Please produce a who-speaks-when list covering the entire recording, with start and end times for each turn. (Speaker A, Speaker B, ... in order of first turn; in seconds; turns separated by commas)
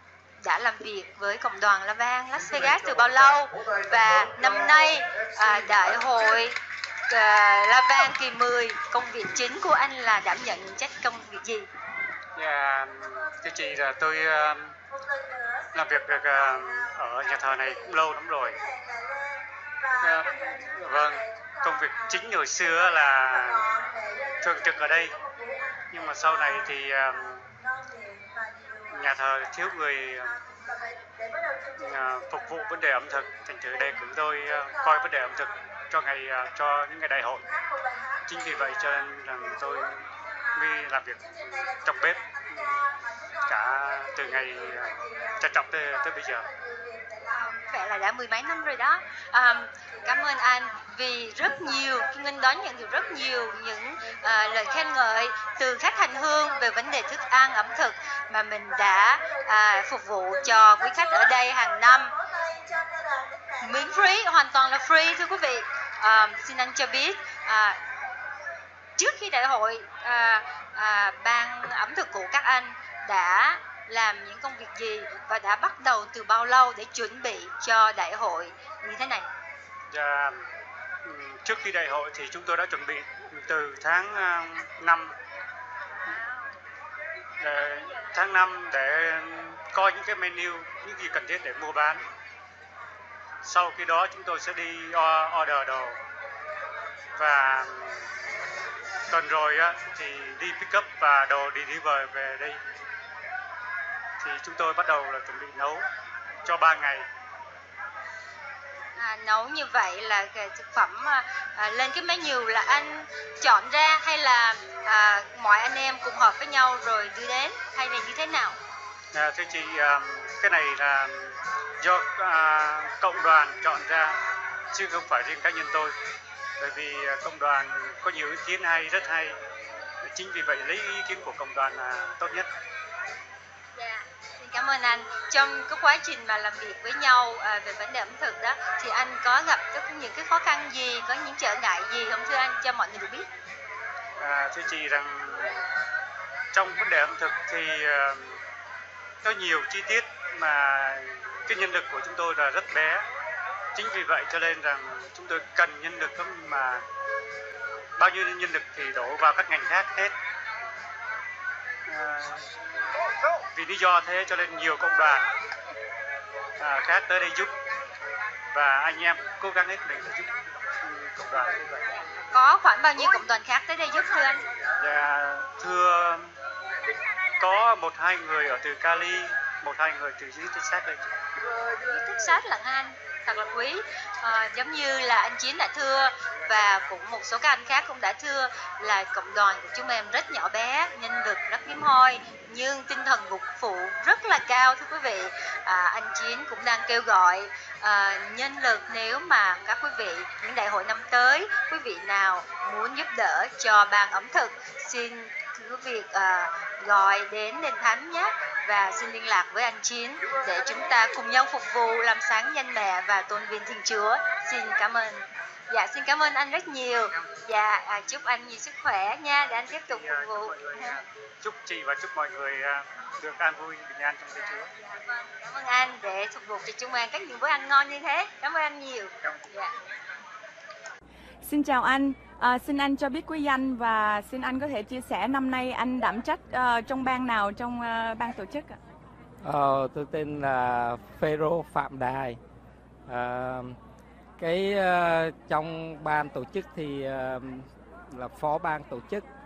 Speaker A: 0.4-6.6, Speaker A: 7.1-11.7, Speaker B: 12.3-14.7, Speaker B: 15.7-18.6, Speaker B: 20.0-23.9, Speaker B: 24.4-25.2, Speaker B: 25.9-27.5, Speaker B: 28.9-30.4, Speaker B: 31.8-37.6, Speaker B: 38.2-42.9, Speaker B: 43.4-46.5, Speaker A: 47.4-62.2, Speaker A: 63.6-67.8, Speaker A: 69.0-79.3, Speaker B: 79.9-80.4, Speaker B: 81.0-85.1, Speaker A: 86.0-86.5, Speaker B: 87.4-92.0, Speaker B: 93.4-96.0, Speaker B: 97.2-98.0, Speaker B: 99.1-102.6, Speaker B: 104.2-105.8, Speaker B: 106.4-107.1, Speaker A: 109.0-118.6, Speaker B: 119.1-124.2, Speaker B: 124.7-125.9, Speaker B: 126.6-129.4, Speaker B: 130.0-132.5, Speaker A: 133.8-143.3, Speaker B: 144.2-145.6, Speaker B: 146.5-148.4, Speaker B: 149.2-153.0, Speaker B: 153.8-156.8, Speaker B: 158.0-160.1, Speaker B: 161.9-162.5, Speaker B: 163.5-165.3, Speaker B: 166.6-167.5, Speaker B: 168.5-170.3, Speaker B: 170.8-171.8, Speaker A: 172.1-174.4, Speaker B: 174.8-176.3, Speaker B: 177.4-181.0, Speaker A: 181.8-221.0, Speaker B: 219.9-224.7, Speaker A: 224.3-229.7, Speaker C: 231.4-238.8, Speaker D: 239.4-242.4, Speaker D: 243.1-243.8, Speaker D: 244.4-249.2